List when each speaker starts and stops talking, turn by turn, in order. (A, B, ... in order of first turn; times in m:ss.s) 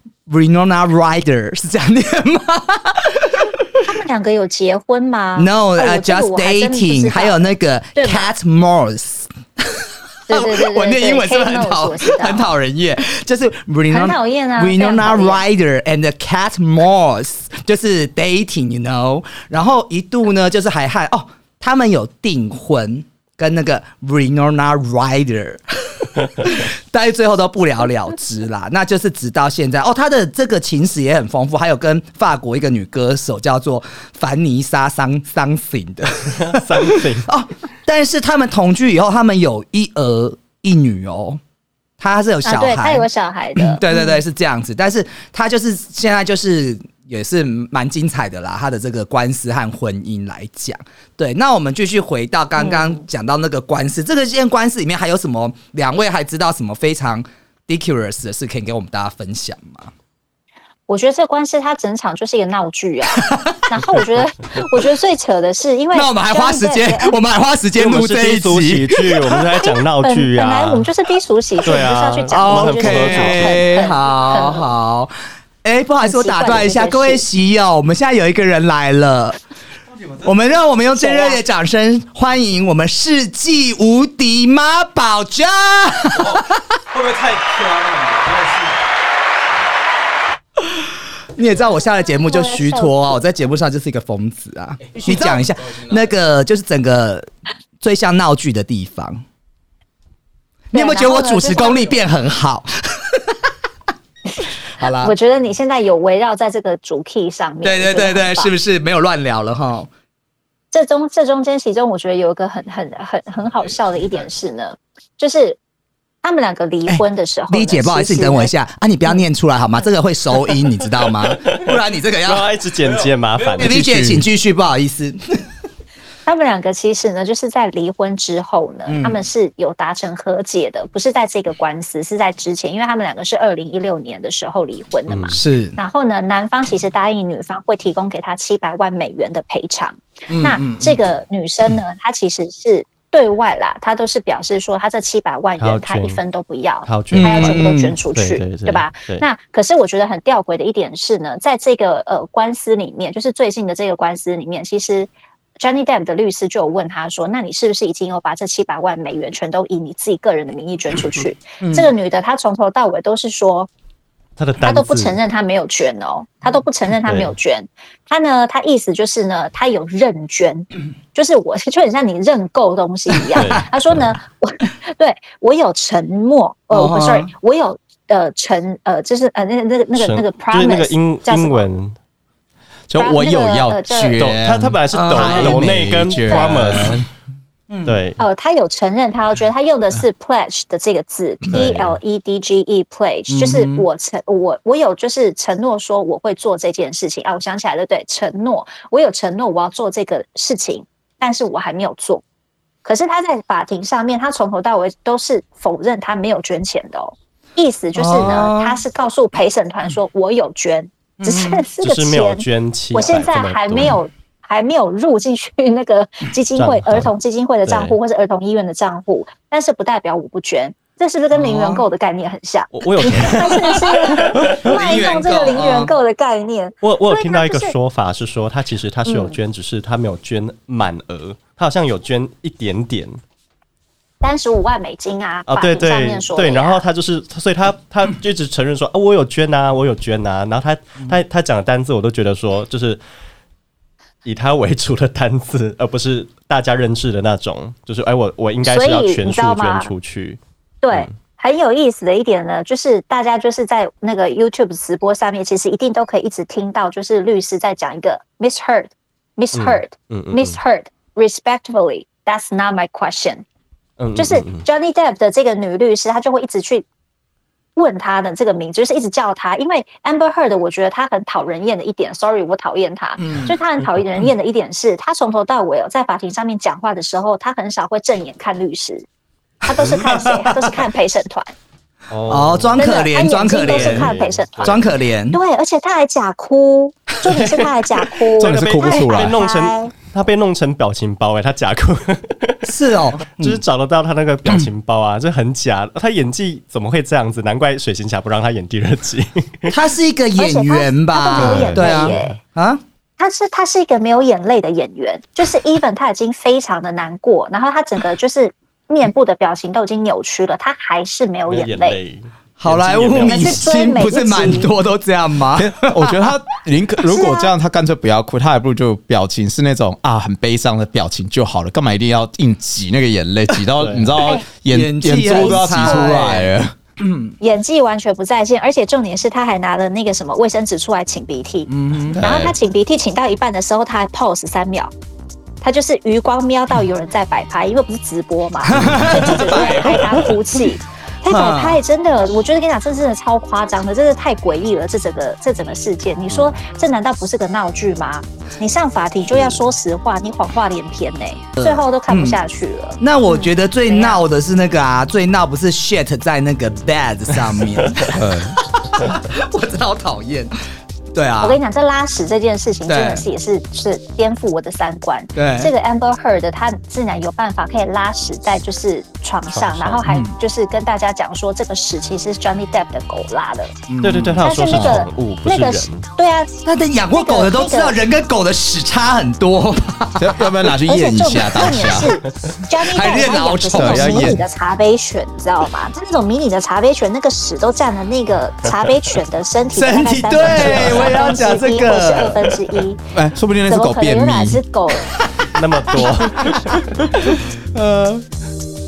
0:00.3-0:03.9 A
0:03.4-0:07.4 B
0:05.4-0:41.4 A
0:08.0-0:08.3 B
0:10.3-0:12.4 B
0:13.9-0:15.4 B
0:36.3-0:37.3 C
0:42.0-0:59.9 A
0:42.4-0:44.2 B
0:52.6-0:53.0 B
1:00.9-1:07.2 B
1:03.2-1:03.8 A
1:05.9-1:09.4 A
1:07.8-1:10.9 C
1:09.6-1:14.7 B
1:11.6-1:13.7 C
1:12.3-1:19.4 A
1:16.0-1:17.2 B
1:20.2-1:26.6 A
1:21.0-1:21.4 B
1:26.2-1:28.8 D
1:31.4-1:39.2 A
1:32.1-1:33.2 B
1:35.0-1:35.9 D
1:40.7-1:42.0 B
1:40.7-1:43.5 A
1:44.4-1:48.5 B
1:44.8-1:45.2 A
1:47.6-1:49.9 A
1:50.7-1:55.6 B
1:56.2-1:58.5 B
1:56.9-2:02.5 A
2:01.1-2:01.6 C
2:02.2-2:04.1 C
2:03.5-2:04.2 D
2:03.6-2:05.2 A
2:06.2-2:35.1 B
2:08.9-2:09.2 A
2:15.1-2:15.4 C
2:15.3-2:15.8 A
2:20.3-2:21.0 A
2:25.6-2:26.2 C
2:26.8-2:29.2 C
2:27.1-2:28.0 A
2:35.6-2:43.7 B
2:41.6-2:41.9 A
2:44.4-2:45.2 C
2:44.6-3:01.6 B
2:47.0-2:47.3 C
2:53.3-2:54.2 C
2:56.7-2:57.3 A
3:00.0-3:02.0 C
3:02.9-3:07.0 D
3:03.0-3:04.2 B
3:04.2-3:07.0 C
3:04.9-3:05.7 A
3:06.3-3:06.6 B
3:06.6-3:07.0 A
3:07.8-3:08.2 C
3:08.2-3:22.2 B
3:11.5-3:12.0 C
3:13.3-3:13.9 A
3:22.8-3:47.7 B
3:27.9-3:28.8 A
3:31.2-3:31.6 A
3:31.8-3:33.9 C
3:36.6-3:37.1 C
3:37.6-3:37.9 C
3:41.3-3:41.8 A
3:42.7-3:45.1 C
3:43.2-3:45.9 A
3:46.8-3:53.2 C
3:49.0-3:49.4 B
3:54.2-3:56.8 B
3:55.5-4:03.0 C
4:04.2-4:10.4 C
4:08.6-4:09.9 B
4:10.8-4:23.4 B
4:19.5-4:20.6 C
4:24.0-4:24.6 C
4:24.2-4:26.8 B
4:27.8-4:39.0 B
4:33.2-4:33.5 A
4:39.6-4:41.5 B
4:39.7-4:40.8 A
4:42.1-4:43.0 C
4:42.3-4:44.1 A
4:42.8-4:49.9 B
4:43.5-4:44.9 C
4:44.6-4:45.4 A
4:47.2-4:47.7 C
4:48.3-4:52.7 C
4:48.4-4:49.4 D
4:52.6-4:53.6 A
4:53.3-4:59.7 C
4:59.7-5:02.8 A
5:00.4-5:02.4 B
5:01.3-5:02.4 C
5:03.2-5:12.0 B
5:11.5-5:13.8 C
5:12.6-5:16.4 A
5:13.2-5:14.7 B
5:15.6-5:26.7 D
5:17.1-5:17.5 B
5:23.8-5:24.2 C
5:24.7-5:27.4 A
5:25.2-5:26.4 B
5:27.4-5:34.9 B
5:31.7-5:32.2 A
5:32.2-5:32.5 D
5:35.6-5:54.2 B
5:38.6-5:40.4 A
5:41.2-5:41.8 A
5:49.3-5:49.6 C
5:51.6-5:52.4 A
5:53.0-6:00.5 A
5:58.1-5:58.6 D
6:01.1-6:01.6 A
6:01.4-6:13.7 B
6:02.9-6:03.2 A
6:05.4-6:05.7 A
6:09.5-6:10.0 C
6:10.0-6:10.3 A
6:13.9-6:14.4 A
6:14.0-6:16.0 C
6:14.4-6:16.5 B
6:14.7-6:15.0 D
6:16.6-6:20.7 A
6:17.1-6:18.0 B
6:20.2-6:22.1 D
6:20.8-6:33.1 B
6:21.6-6:22.0 A
6:22.8-6:24.4 A
6:23.7-6:24.4 D
6:28.7-6:28.9 C
6:29.7-6:32.6 A
6:33.1-6:34.6 D
6:33.7-6:35.1 B
6:35.1-6:38.2 A
6:35.5-6:37.4 C